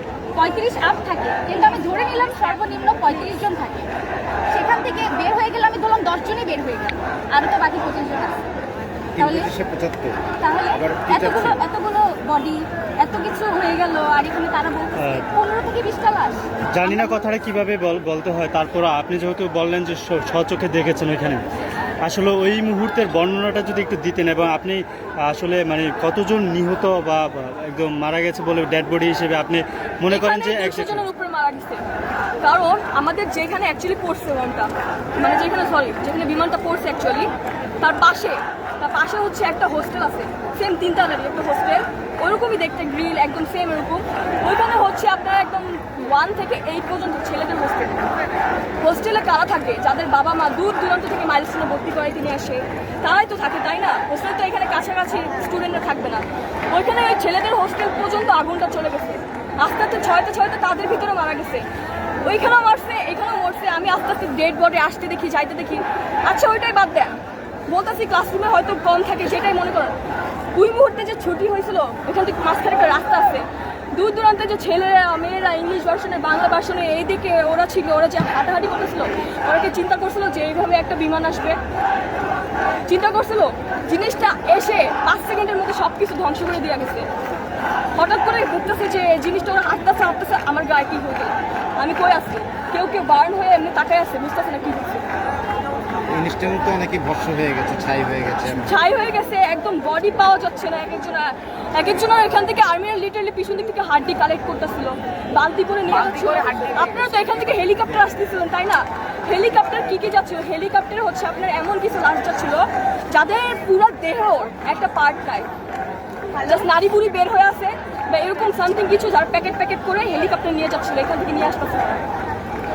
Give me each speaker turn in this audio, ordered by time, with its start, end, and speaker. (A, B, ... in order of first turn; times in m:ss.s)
0:00.3-0:03.9 A
0:04.5-0:08.3 A
0:09.2-0:10.2 B
0:09.2-0:09.4 A
0:10.4-0:16.4 A
0:10.8-0:11.6 B
0:15.0-0:15.3 C
0:16.7-0:21.4 C
0:22.0-0:31.0 C
0:30.1-0:31.8 D
0:32.4-0:37.3 D
0:37.8-0:48.0 D
0:48.8-1:01.6 D
1:02.2-1:07.1 D
1:07.7-1:10.0 D
1:10.5-1:21.6 D
1:22.9-1:27.0 D
1:28.0-1:35.0 D
1:36.1-1:38.7 B
1:38.6-1:55.5 D
1:56.4-2:02.0 D